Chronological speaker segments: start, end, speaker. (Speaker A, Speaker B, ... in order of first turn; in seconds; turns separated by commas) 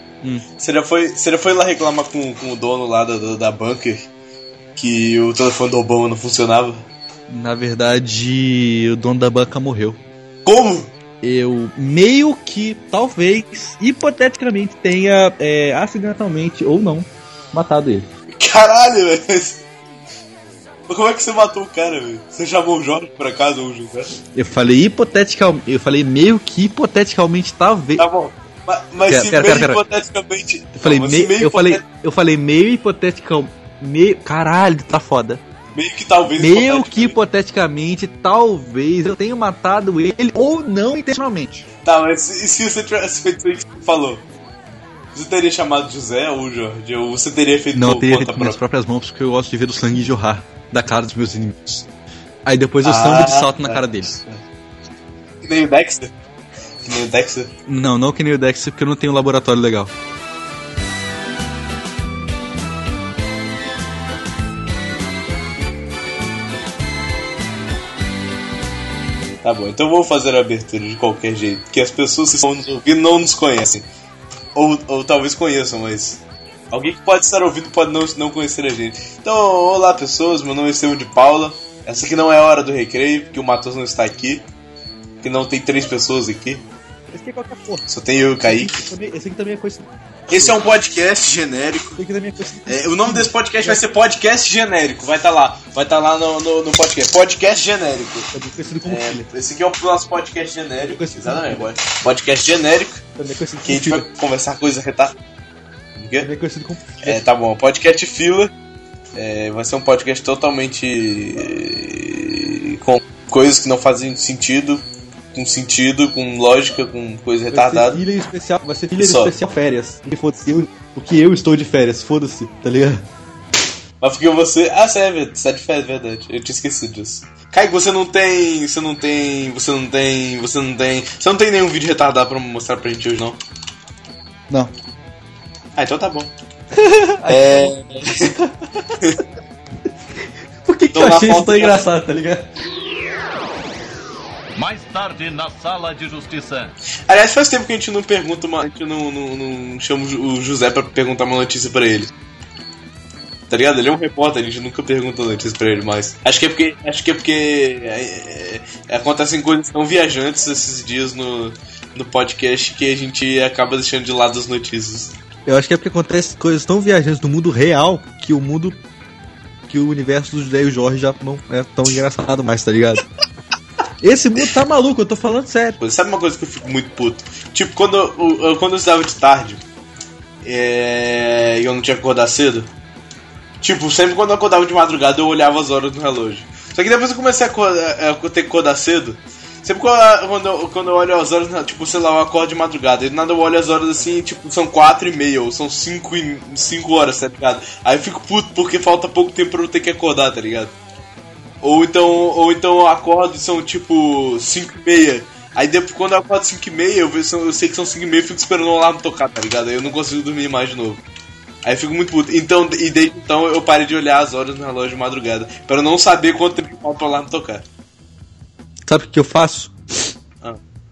Speaker A: 0.6-4.1, Speaker A: 4.8-6.8, Speaker B: 7.3-10.0, Speaker A: 10.4-10.9, Speaker B: 11.2-18.1, Speaker A: 18.3-19.6, Speaker A: 20.9-24.1, Speaker B: 24.3-28.1, Speaker A: 28.0-31.8, Speaker B: 29.1-29.8, Speaker B: 30.7-35.4, Speaker A: 35.8-37.2, Speaker B: 36.4-41.6, Speaker A: 41.9-44.2, Speaker A: 45.1-48.6, Speaker B: 47.7-51.9, Speaker B: 52.5-54.1, Speaker A: 52.8-54.4, Speaker A: 55.4-56.1, Speaker A: 56.9-57.5, Speaker B: 57.7-59.9, Speaker A: 69.4-73.8, Speaker A: 74.5-84.5, Speaker A: 85.2-86.6, Speaker B: 87.1-87.9, Speaker A: 87.9-88.9, Speaker B: 88.4-90.6, Speaker A: 90.3-92.0, Speaker B: 92.0-93.8, Speaker A: 92.7-98.3, Speaker B: 98.3-99.3, Speaker A: 98.8-103.0, Speaker B: 100.9-101.7, Speaker B: 103.2-104.0, Speaker A: 103.6-105.1, Speaker A: 106.0-106.3, Speaker B: 106.2-107.2, Speaker A: 107.0-108.5, Speaker A: 109.1-118.0, Speaker B: 117.5-123.0, Speaker A: 119.0-119.3, Speaker A: 124.0-133.4, Speaker A: 135.8-136.3, Speaker B: 136.7-137.8, Speaker A: 137.3-138.3, Speaker B: 138.3-139.0, Speaker B: 140.6-142.5, Speaker A: 140.9-141.8, Speaker C: 144.6-146.7, Speaker A: 147.1-152.1, Speaker A: 153.5-165.1, Speaker B: 165.4-168.8, Speaker B: 169.7-173.0, Speaker B: 174.0-175.8, Speaker A: 175.8-179.6, Speaker A: 180.4-182.7, Speaker A: 183.6-200.7, Speaker A: 201.6-211.0, Speaker A: 211.6-217.6, Speaker B: 218.8-219.7